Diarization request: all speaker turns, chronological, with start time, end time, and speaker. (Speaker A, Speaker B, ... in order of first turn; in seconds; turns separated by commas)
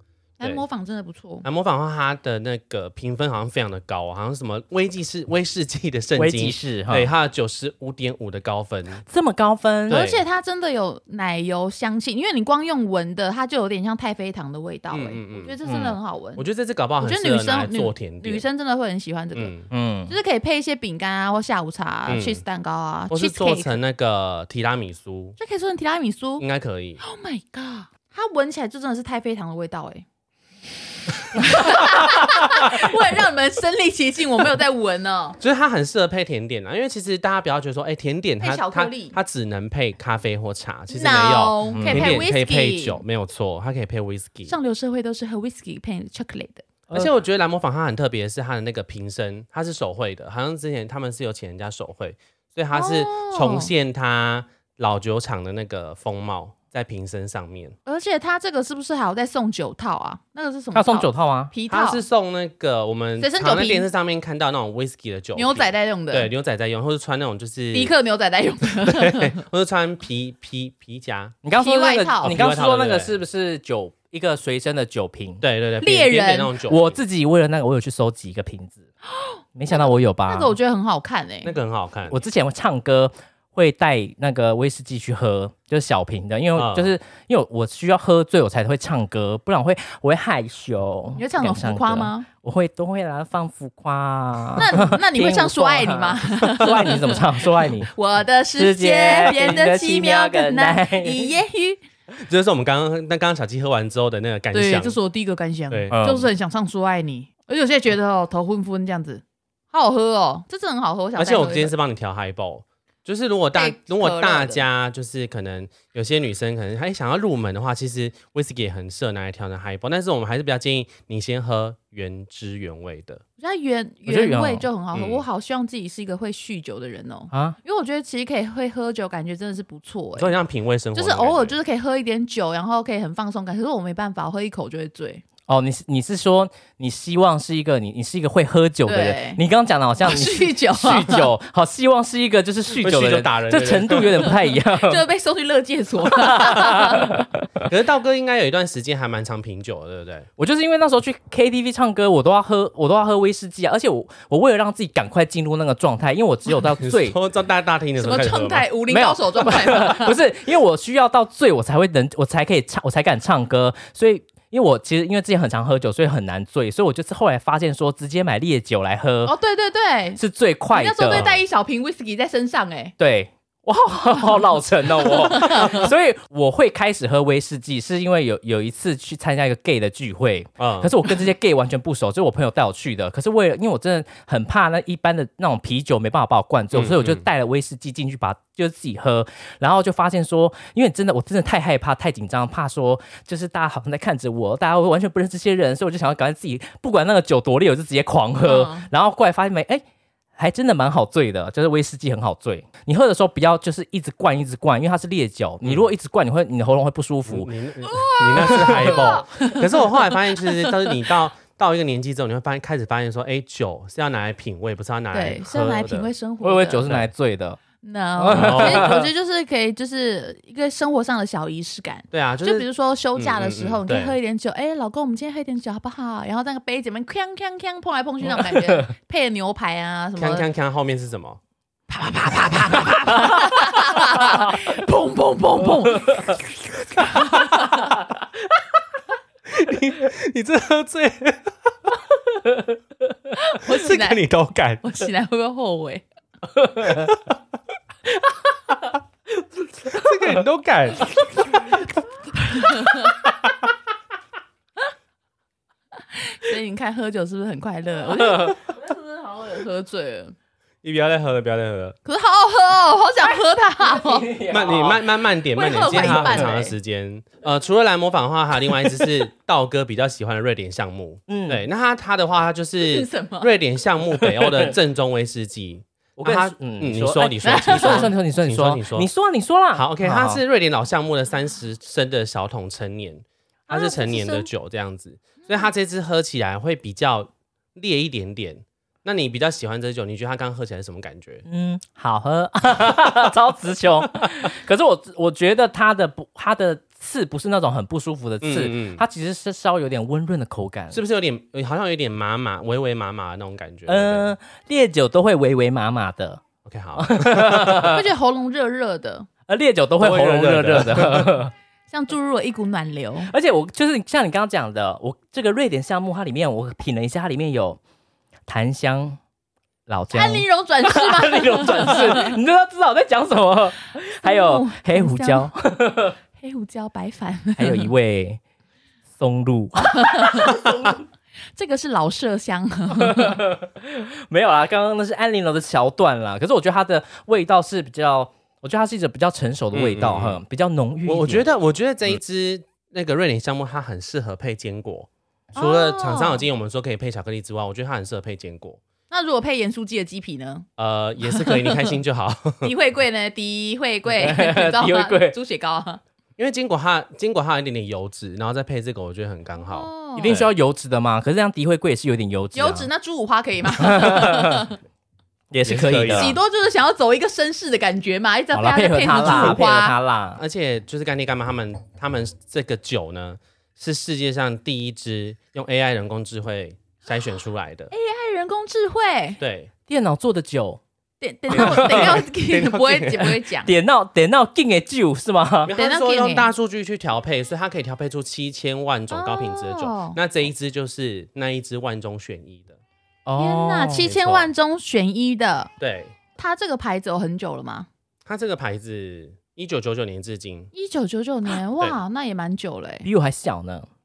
Speaker A: 0.4-1.5, Speaker B: 1.4-9.1, Speaker C: 6.2-7.1, Speaker C: 9.1-10.0, Speaker B: 9.9-10.2, Speaker A: 9.9-16.4, Speaker B: 14.9-18.4, Speaker A: 17.0-19.6, Speaker B: 19.4-19.7, Speaker C: 19.7-20.1, Speaker A: 20.1-23.8, Speaker B: 22.1-22.4, Speaker B: 23.1-25.4, Speaker A: 25.4-26.5, Speaker B: 26.4-27.0, Speaker A: 27.0-30.1, Speaker A: 31.3-35.4, Speaker B: 35.4-44.5, Speaker A: 38.4-39.2, Speaker A: 40.9-43.0, Speaker C: 41.7-42.2, Speaker A: 44.5-46.7, Speaker B: 46.9-57.8, Speaker A: 52.7-53.7, Speaker A: 57.9-62.0, Speaker C: 60.7-61.5, Speaker B: 61.7-67.9, Speaker A: 63.2-63.9, Speaker A: 65.4-66.3, Speaker A: 67.7-69.4, Speaker B: 68.8-71.4, Speaker C: 71.4-75.4, Speaker A: 71.6-72.4, Speaker B: 72.2-73.1, Speaker B: 75.4-77.0, Speaker A: 75.8-76.5, Speaker C: 76.7-78.8, Speaker C: 79.5-80.5, Speaker A: 79.7-81.5, Speaker B: 81.4-82.2, Speaker C: 82.1-97.9, Speaker B: 86.5-86.9, Speaker A: 91.2-92.3, Speaker A: 94.6-101.8, Speaker C: 98.6-101.3, Speaker B: 102.1-105.0, Speaker A: 104.5-111.7, Speaker B: 105.7-106.0, Speaker C: 105.9-106.3, Speaker B: 111.2-123.2, Speaker A: 113.5-114.6, Speaker A: 123.4-130.3, Speaker C: 124.1-124.7, Speaker B: 124.9-125.2, Speaker C: 127.3-127.6, Speaker B: 130.2-131.6, Speaker A: 130.9-135.2, Speaker C: 135.5-145.0, Speaker A: 138.9-139.4, Speaker A: 140.0-141.3, Speaker B: 142.8-144.3, Speaker A: 144.7-147.1, Speaker C: 146.1-147.7, Speaker B: 147.7-150.3, Speaker C: 150.4-157.2, Speaker B: 156.8-158.7, Speaker A: 158.0-160.2, Speaker C: 158.9-169.3, Speaker A: 169.3-170.2, Speaker C: 170.2-171.3, Speaker A: 170.7-172.9, Speaker B: 171.1-171.4, Speaker C: 173.0-199.8, Speaker A: 175.3-175.9, Speaker B: 180.6-180.9, Speaker B: 186.7-187.2, Speaker A: 198.4-198.9, Speaker C: 200.4-207.5, Speaker B: 207.3-216.1, Speaker A: 207.9-211.0, Speaker C: 208.4-209.0, Speaker A: 215.1-216.9, Speaker C: 216.4-217.6, Speaker A: 217.8-230.5, Speaker C: 218.2-219.1, Speaker B: 218.3-218.9, Speaker B: 222.1-224.2, Speaker C: 228.5-228.9, Speaker B: 230.2-231.4, Speaker A: 231.9-237.9, Speaker C: 232.7-234.6, Speaker C: 235.9-236.3, Speaker B: 239.5-241.9, Speaker A: 243.4-244.2, Speaker B: 243.7-244.8, Speaker A: 244.8-246.0, Speaker C: 246.6-247.1, Speaker C: 249.8-250.1, Speaker B: 249.9-251.9, Speaker A: 252.5-253.2, Speaker A: 256.1-260.3, Speaker C: 258.3-258.6, Speaker B: 260.8-262.0, Speaker A: 262.1-264.3, Speaker C: 263.2-265.1, Speaker B: 264.5-279.1, Speaker A: 265.6-266.7, Speaker C: 265.8-266.5, Speaker C: 271.3-271.6, Speaker A: 272.8-273.5, Speaker C: 274.2-274.7, Speaker C: 276.2-280.4, Speaker A: 277.4-278.1, Speaker B: 279.8-291.4, Speaker A: 283.7-284.5, Speaker C: 291.5-301.0, Speaker B: 298.4-299.0, Speaker B: 300.9-304.3, Speaker C: 303.9-306.4, Speaker B: 306.6-307.9, Speaker C: 307.0-308.0, Speaker A: 307.9-309.3, Speaker C: 309.5-311.5, Speaker B: 310.0-311.4, Speaker A: 311.9-313.3, Speaker C: 313.2-317.8, Speaker C: 318.5-319.2, Speaker C: 319.9-326.2, Speaker A: 320.1-322.4, Speaker A: 324.2-325.5, Speaker A: 326.4-327.9, Speaker C: 327.6-328.4, Speaker C: 329.2-331.0, Speaker A: 329.9-330.7, Speaker A: 331.6-333.4, Speaker C: 332.9-341.5, Speaker B: 339.7-340.4, Speaker B: 341.1-348.8, Speaker A: 345.6-346.4, Speaker A: 349.1-350.7, Speaker B: 350.8-352.7, Speaker A: 351.2-351.9, Speaker A: 352.6-356.0, Speaker C: 354.2-355.4, Speaker B: 356.4-360.5, Speaker A: 359.7-360.4, Speaker C: 360.2-362.9, Speaker A: 362.6-364.8, Speaker C: 363.8-364.7, Speaker C: 365.5-366.3, Speaker B: 365.6-366.4, Speaker A: 366.1-370.0, Speaker C: 368.5-370.4, Speaker B: 369.2-369.6, Speaker B: 370.4-377.9, Speaker A: 377.9-379.4, Speaker B: 379.4-379.7, Speaker C: 379.9-380.8, Speaker A: 381.2-383.7, Speaker B: 381.5-383.4, Speaker C: 381.5-382.2, Speaker C: 383.6-385.7, Speaker B: 385.6-392.8, Speaker A: 385.7-386.5, Speaker A: 389.1-390.2, Speaker C: 393.3-394.1, Speaker A: 393.4-395.7, Speaker B: 394.0-394.5, Speaker B: 395.8-396.2, Speaker A: 396.4-397.9, Speaker B: 398.3-400.7, Speaker A: 400.7-403.1, Speaker C: 403.0-403.9